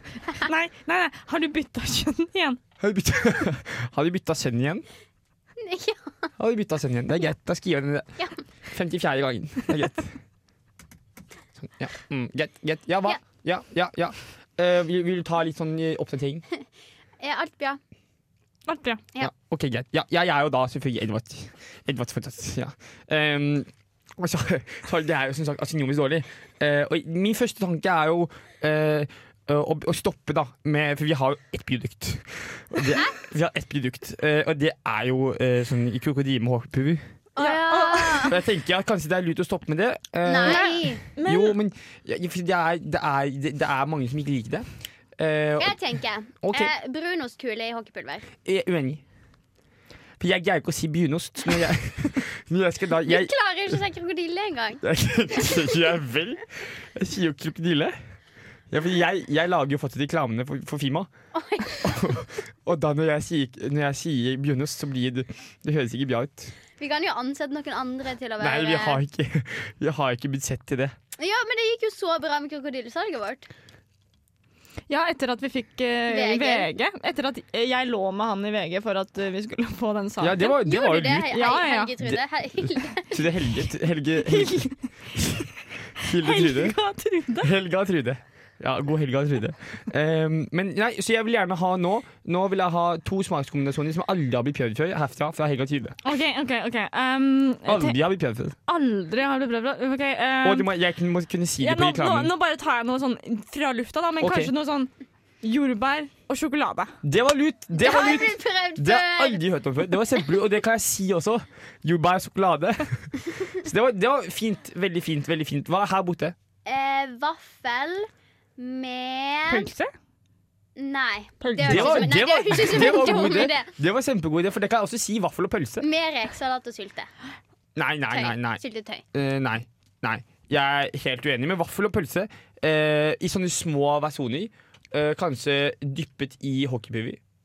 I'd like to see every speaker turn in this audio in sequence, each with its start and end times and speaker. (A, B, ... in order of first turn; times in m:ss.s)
0:00.4-0:02.6 A
0:02.8-0:04.9 B
0:05.6-0:06.3 C
0:06.4-0:08.1 B
0:08.7-0:10.1 B
0:11.6-0:16.4 B
0:17.2-0:17.8 C
0:18.7-0:19.0 A
0:19.2-0:37.0 B
0:37.4-0:38.4 C
0:37.4-0:38.4 A
0:38.3-0:44.7 B
0:40.2-0:41.0 C
0:40.4-0:41.6 A
0:45.2-0:45.8 B
0:45.6-0:48.3 C
0:46.4-0:46.7 B
0:48.4-0:49.0 B
0:50.2-0:53.3 B
0:53.0-0:54.8 C
0:54.8-0:58.0 B
0:58.7-1:01.1 B
1:01.3-1:02.1 C
1:01.8-1:06.5 B
1:06.8-1:09.0 C
1:08.4-1:11.0 B
1:11.2-1:13.5 C
1:14.9-1:20.6 A
1:16.1-1:16.7 C
1:20.2-1:21.3 B
1:20.6-1:23.2 C
1:21.3-1:21.9 A
1:23.0-1:26.8 B
1:24.2-1:24.8 A
1:26.1-1:27.5 A
1:27.4-1:36.0 B
1:36.0-1:38.0 A
1:37.7-1:38.6 B
1:38.7-1:40.7 A
1:40.4-1:42.3 B
1:41.6-1:44.9 A
1:44.2-1:44.5 B
1:45.4-1:47.0 A
1:47.0-1:56.4 B
1:47.8-1:49.4 C
1:56.7-1:59.7 C
1:59.5-1:59.9 A
2:00.8-2:03.7 C
2:01.4-2:03.0 A
2:01.6-2:05.8 B
2:05.8-2:07.1 C
2:07.8-2:08.6 B
2:08.1-2:09.0 C
2:09.1-2:17.2 B